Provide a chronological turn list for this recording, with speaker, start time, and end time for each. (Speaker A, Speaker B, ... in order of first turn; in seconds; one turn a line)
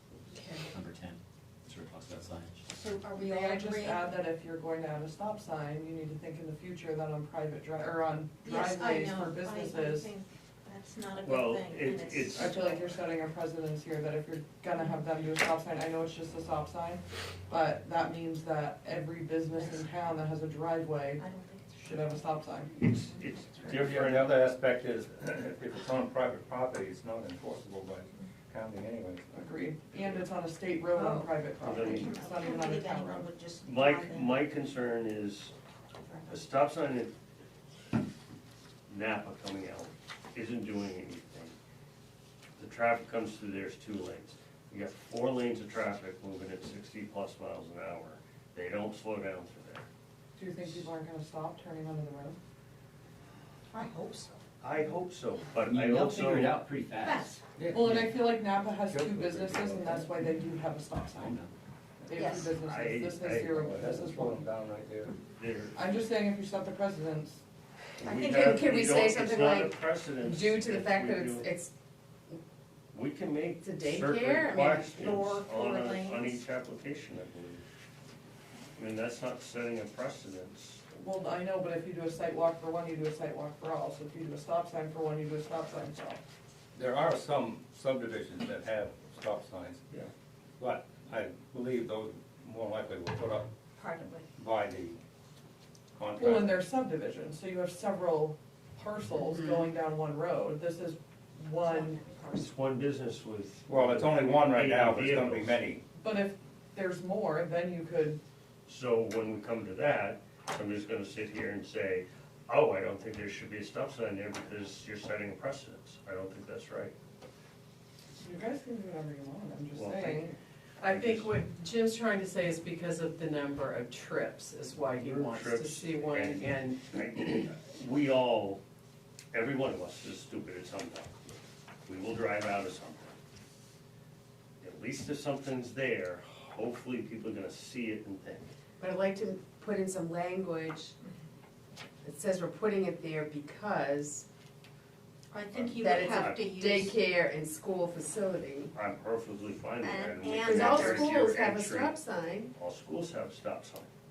Speaker A: 0.3-0.7
Speaker B: 0.6-2.6
Speaker C: 2.6-4.2
Speaker D: 3.1-10.1
Speaker C: 8.4-12.8
Speaker E: 11.2-13.0
Speaker D: 12.3-22.7
Speaker C: 19.5-19.9
Speaker C: 21.2-22.3
Speaker E: 22.8-24.3
Speaker C: 22.8-23.9
Speaker F: 23.8-29.3
Speaker D: 29.3-33.3
Speaker C: 30.9-34.5
Speaker E: 31.6-32.1
Speaker E: 33.6-35.5
Speaker C: 36.0-36.5
Speaker E: 36.3-37.1
Speaker E: 38.9-41.5
Speaker E: 42.5-49.9
Speaker D: 50.4-52.4
Speaker C: 53.7-54.4
Speaker E: 54.6-56.6
Speaker B: 55.5-57.9
Speaker C: 57.0-57.4
Speaker F: 57.6-58.1
Speaker D: 57.7-61.4
Speaker F: 58.9-60.1
Speaker B: 61.2-61.5
Speaker D: 62.0-64.4
Speaker C: 62.1-62.5
Speaker E: 62.6-63.5
Speaker F: 63.5-65.2
Speaker E: 65.3-65.8
Speaker D: 65.7-67.4
Speaker E: 68.0-71.5
Speaker G: 68.0-69.7
Speaker G: 70.2-71.7
Speaker E: 72.9-77.6
Speaker G: 73.6-74.9
Speaker C: 74.9-76.4
Speaker E: 78.8-80.8
Speaker D: 80.9-86.2
Speaker F: 86.7-89.8
Speaker F: 90.6-93.5
Speaker C: 93.8-94.3
Speaker F: 94.3-95.0
Speaker F: 95.9-96.6
Speaker D: 96.2-102.0
Speaker C: 101.6-102.5
Speaker E: 102.3-105.6
Speaker F: 103.7-105.8
Speaker D: 106.0-108.2
Speaker E: 108.7-116.9
Speaker D: 118.2-120.4
Speaker E: 119.7-120.3
Speaker A: 120.8-126.9
Speaker E: 120.8-121.4
Speaker E: 124.7-128.6
Speaker E: 129.3-133.2
Speaker E: 134.6-138.5
Speaker G: 138.8-140.5
Speaker G: 143.9-144.2
Speaker C: 145.3-146.9
Speaker E: 145.5-146.5
Speaker G: 145.9-148.7
Speaker E: 148.7-152.0
Speaker C: 149.8-151.4
Speaker G: 150.4-152.5
Speaker E: 152.5-153.9